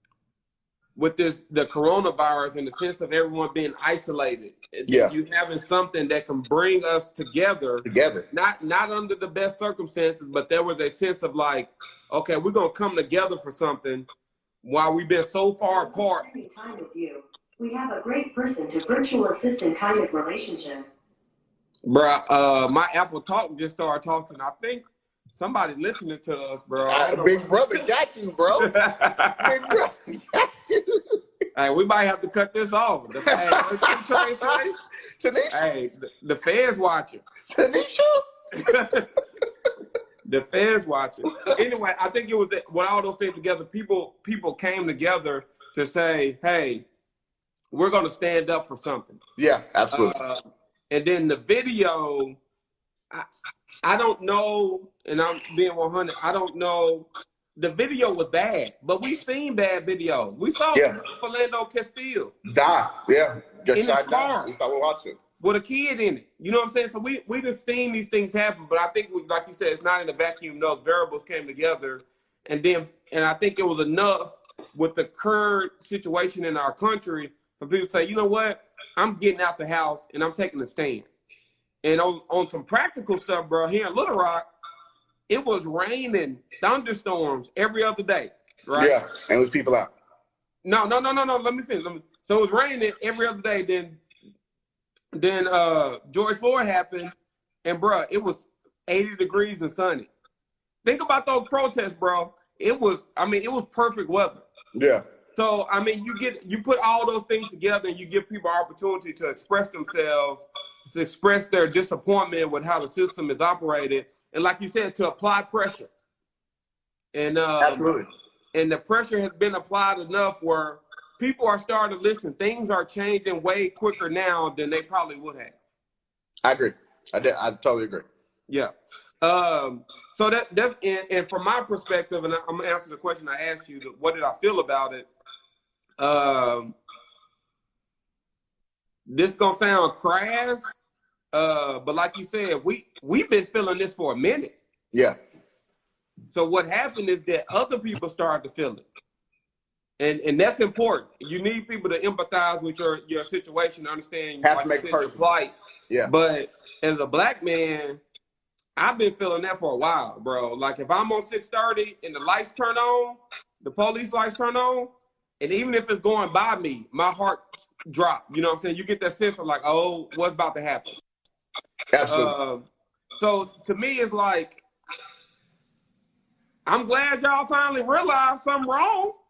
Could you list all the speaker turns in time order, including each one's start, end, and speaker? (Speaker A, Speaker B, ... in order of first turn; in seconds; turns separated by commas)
Speaker A: 0.9-14.1, Speaker B: 4.9-5.1, Speaker B: 7.8-8.2, Speaker A: 14.6-16.2, Speaker C: 15.7-20.9, Speaker A: 21.8-24.8, Speaker A: 25.4-27.4, Speaker B: 26.9-28.7, Speaker A: 28.6-29.8, Speaker B: 29.4-31.2, Speaker A: 31.5-34.8, Speaker B: 33.3-34.5, Speaker B: 35.2-35.6, Speaker A: 35.5-37.2, Speaker B: 37.5-38.7, Speaker A: 38.5-39.1, Speaker A: 40.2-46.8, Speaker A: 47.7-49.2, Speaker B: 49.4-50.2, Speaker A: 49.9-52.4, Speaker A: 53.8-62.3, Speaker B: 62.5-65.2, Speaker A: 63.7-64.5, Speaker A: 65.4-81.1, Speaker A: 81.8-84.4, Speaker A: 85.3-89.0, Speaker B: 88.7-89.9, Speaker A: 90.6-94.0, Speaker A: 95.1-97.1, Speaker A: 97.6-100.1, Speaker A: 100.8-104.4, Speaker B: 104.7-105.0, Speaker A: 105.3-115.9, Speaker A: 117.1-117.9, Speaker B: 117.6-118.1, Speaker A: 118.5-125.5, Speaker B: 126.4-128.1, Speaker A: 129.2-135.1, Speaker A: 136.0-136.7, Speaker A: 139.1-140.7, Speaker A: 141.3-144.5, Speaker A: 146.3-148.8, Speaker A: 150.0-155.5, Speaker B: 154.4-155.2, Speaker A: 156.1-158.0, Speaker A: 158.8-171.0, Speaker B: 171.9-172.3, Speaker A: 172.1-174.6, Speaker A: 176.7-179.2